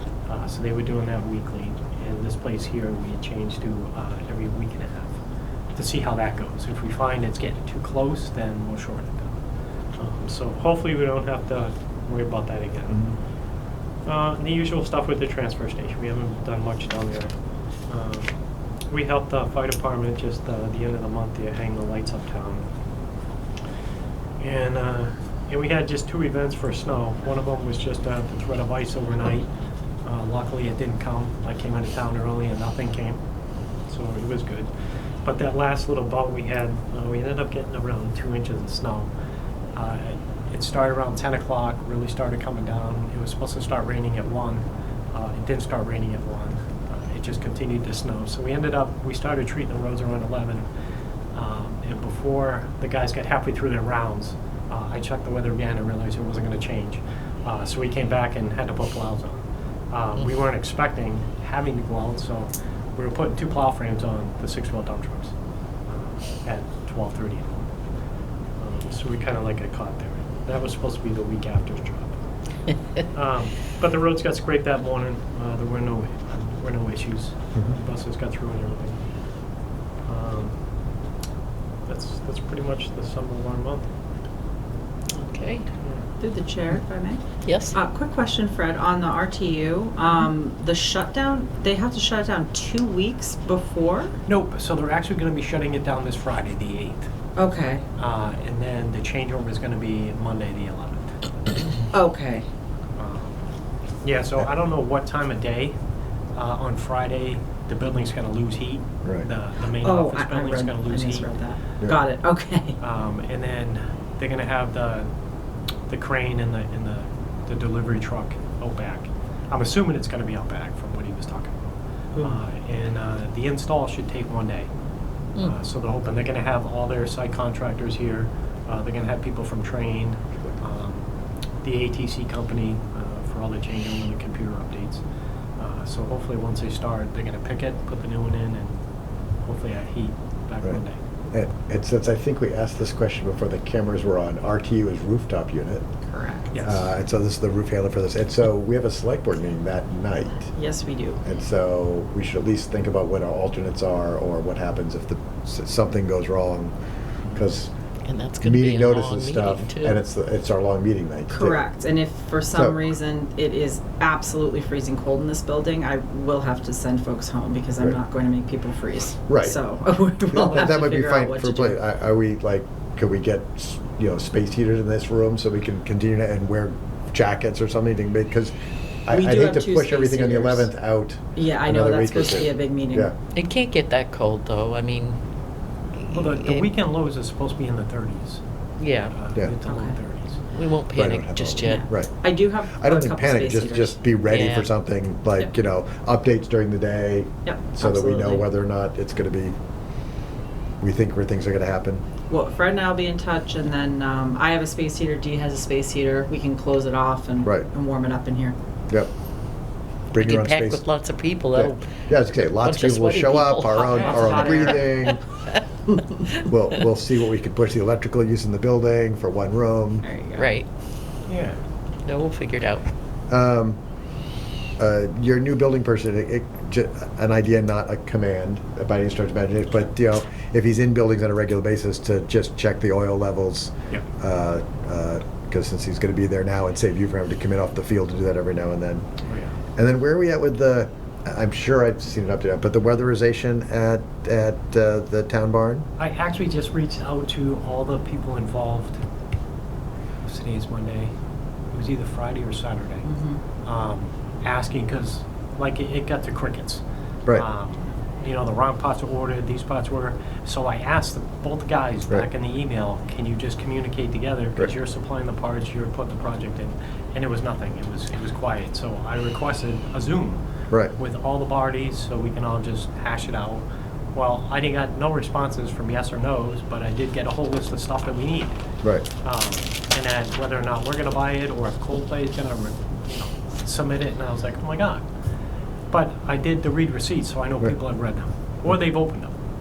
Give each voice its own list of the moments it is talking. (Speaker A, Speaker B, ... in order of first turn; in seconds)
Speaker A: 0.3-5.2, 5.7-9.4, 10.0-13.1, 14.1-17.3, 17.9-18.3, 18.9-22.7, 24.4-29.5, 30.0-33.2, 33.9-34.7, 35.2-39.1, 39.8-50.6, 51.3-65.3, 65.9-67.7, 68.6-72.2, 73.1-79.0, 80.0-80.5, 81.9-83.9, 94.3-97.1, 98.0-101.7, 103.0-103.4, 104.0-105.8, 106.3-111.3, 112.8-115.1, 115.9-121.6, 122.2-124.7, 125.4-131.1, 131.6-135.0, 135.6-138.8, 139.4-141.0, 146.5-146.9, 186.1-188.4, 189.1-190.4, 221.3-221.6, 239.3-239.5, 246.0-249.0, 250.2-251.1, 251.7-253.1, 253.6-270.4, 270.9-278.6, 279.2-285.0, 285.9-289.3
Speaker B: 85.1-85.7, 87.5-87.7, 158.0-160.0, 183.3-185.2, 186.0-186.7, 188.8-189.1, 190.5-191.8, 194.3-194.7, 210.1-211.8, 212.6-215.1, 220.4-220.7, 222.0-222.9
Speaker C: 86.2-94.2, 97.4-97.8, 101.9-102.5, 109.8-112.8, 146.1-146.5, 150.5-151.2, 161.3-171.8, 179.1-180.7, 181.3-183.1, 189.7-190.0, 191.6-194.0, 197.4-198.4, 202.3-208.6, 213.8-215.0, 220.0-220.5, 253.0-253.4
Speaker D: 141.3-145.8, 146.6-150.5, 151.2-156.7, 157.3-157.7, 158.4-161.6, 162.5-162.8, 169.3-169.6, 170.3-178.5, 179.1-183.1, 190.9-199.5, 200.8-202.0, 210.1-210.8, 211.5-215.2, 216.3-220.1, 223.3-223.8, 224.8-239.1, 239.8-245.8